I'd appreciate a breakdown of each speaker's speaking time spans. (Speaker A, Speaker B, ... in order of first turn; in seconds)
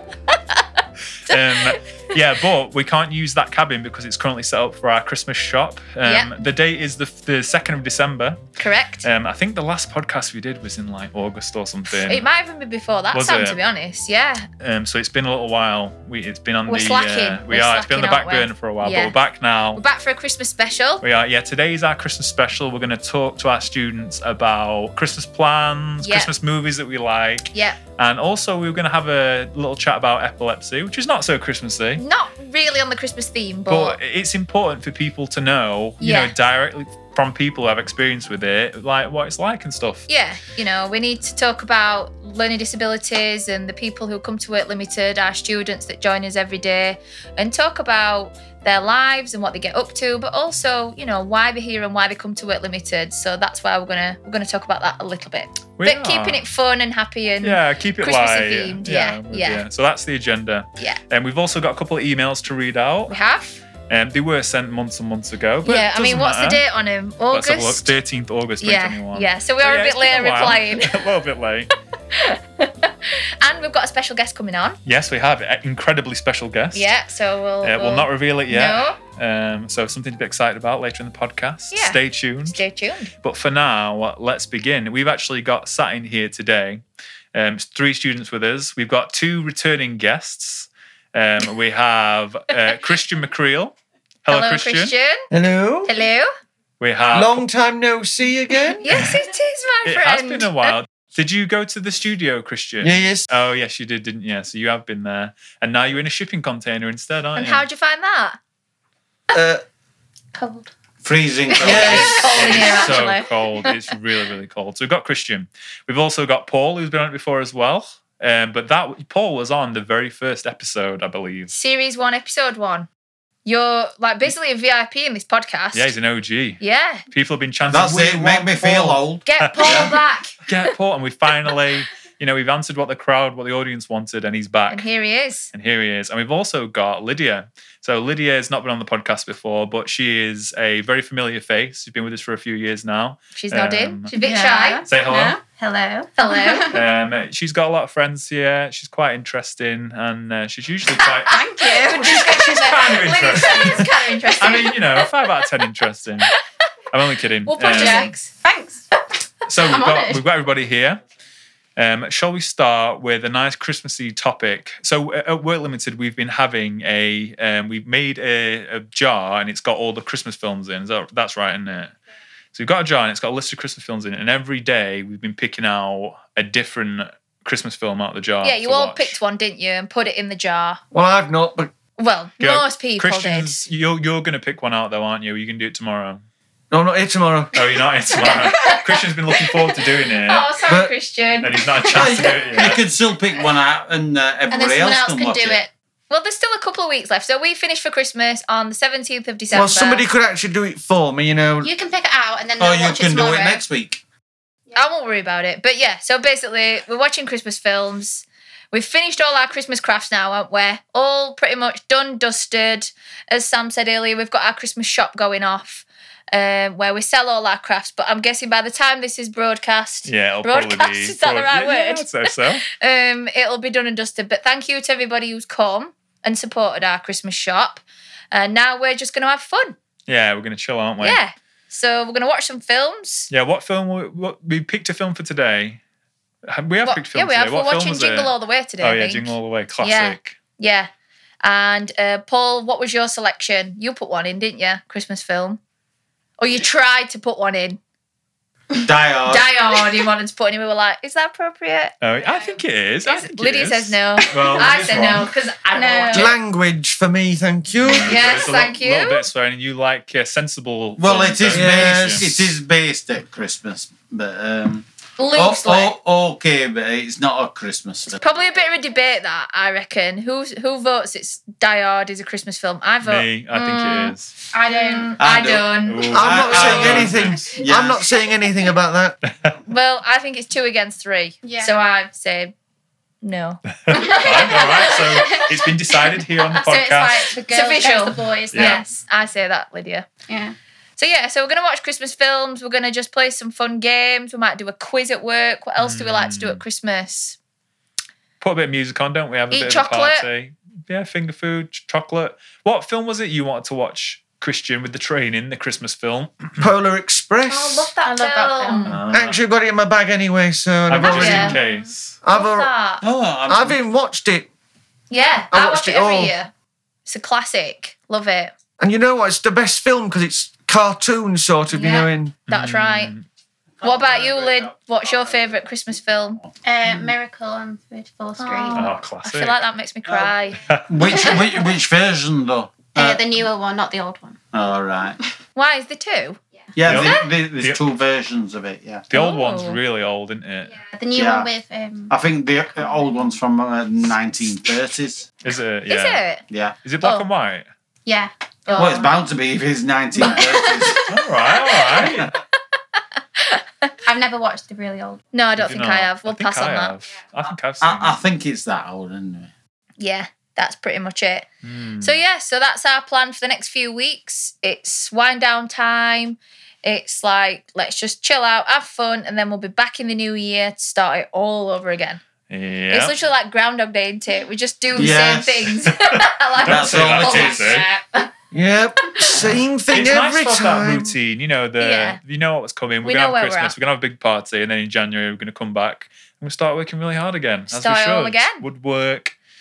Speaker A: 0.3-0.6, 1.3-1.8, 6.0-6.3, 8.6-9.1, 12.0-14.5, 16.7-19.2, 19.8-21.0, 26.0-26.3, 27.5-27.8, 32.0-34.0, 36.0-36.3, 40.1-59.6, 63.1-63.6, 65.6-68.0, 68.6-71.0, 72.1-74.8, 76.7-79.0, 81.7-83.1, 94.3-95.3, 95.8-96.3, 98.8-100.5, 107.3-108.4, 111.6-113.4, 121.5-122.9, 123.4-125.9, 126.6-127.0, 129.2-130.7, 134.7-135.5, 143.3-144.8, 146.2-146.8, 151.3-152.0, 152.9-155.1, 157.5-158.3, 178.4-180.8, 182.0-183.6, 188.2-192.0, 194.5-200.0, 204.7-229.7, 231.0-233.3, 236.8-240.9, 241.4-245.6, 246.4-247.8, 249.2-252.0, 253.0-256.3, 258.0-259.2, 265.2-265.9, 268.1-277.1, 279.6-282.5, 283.2-285.5, 286.5-290.1, 291.0-297.4, 299.5-300.2, 307.5-309.0, 311.0-311.6, 312.3-313.0, 315.1-316.5, 317.1-318.5, 321.7-323.1, 323.8-326.4, 328.4-331.5, 335.6-336.4, 336.9-337.3, 339.1-339.8, 345.9-346.4, 348.6-349.1, 350.2-350.4, 353.4-353.9, 355.3-356.9, 360.0-361.5, 362.0-372.2, 372.9-378.3, 381.8-382.2, 383.0-383.7, 387.7-388.6
Speaker B: 1.2-8.4, 9.0-12.2, 13.1-13.6, 14.6-19.8, 21.0-32.0, 33.7-40.0, 55.8-56.4, 57.4-63.1, 63.9-66.6, 67.3-71.7, 74.8-76.9, 77.6-82.6, 83.2-86.8, 87.3-94.9, 96.8-97.5, 98.9-99.2, 99.8-107.6, 112.3-121.5, 125.7-129.9, 130.4-134.8, 135.5-144.1, 144.8-145.4, 146.7-153.9, 154.4-156.3, 156.9-158.1, 159.5-161.0, 161.8-171.9, 172.5-179.2, 182.4-186.2, 187.5-190.5, 191.4-192.8, 220.0-222.6, 230.1-231.2, 233.3-235.8, 236.5-240.4, 252.0-255.3, 257.8-262.3, 273.0-274.3, 275.9-277.5, 279.2-279.6, 283.8-287.3, 288.5-288.8, 295.8-296.6, 298.4-306.6, 308.8-309.4, 310.9-312.1, 322.5-323.2, 328.7-329.6, 336.9-337.8, 339.1-340.8, 345.4-346.2, 346.8-347.7, 351.1-352.3, 355.6-358.2, 361.6-362.2, 372.5-373.1, 376.0-377.9, 379.9-389.3
Speaker C: 95.3-95.9, 97.1-98.8, 102.8-103.3, 109.3-109.6, 111.6-112.2, 180.9-181.7, 186.7-187.6, 190.7-190.9, 199.5-201.7, 256.1-258.2, 261.5-262.5, 276.1-279.1, 306.6-307.9, 309.1-311.6, 312.2-312.7, 313.5-314.5, 315.5-316.3, 318.8-322.3, 378.5-381.1
Speaker D: 110.3-110.7, 144.2-146.8, 151.3-153.6, 157.7-158.9, 159.6-160.2, 188.3-188.8, 201.6-203.6, 255.7-256.3, 274.5-275.1, 281.4-281.8, 283.9-285.5, 286.7-288.8, 290.3-290.5, 308.0-309.0, 326.6-328.9, 332.9-334.4, 340.9-342.1, 348.1-349.1, 350.2-351.1, 354.0-355.2
Speaker E: 111.0-112.8, 127.7-129.9, 191.9-195.6, 202.6-204.0, 248.8-249.5, 261.0-268.2, 275.2-278.0, 313.0-313.8, 323.8-325.4, 330.1-330.3, 330.9-333.4, 334.5-335.2, 336.8-339.1, 341.1-341.5, 342.1-345.3, 346.5-346.8, 348.8-351.0, 357.8-359.5, 374.9-375.8, 376.6-377.7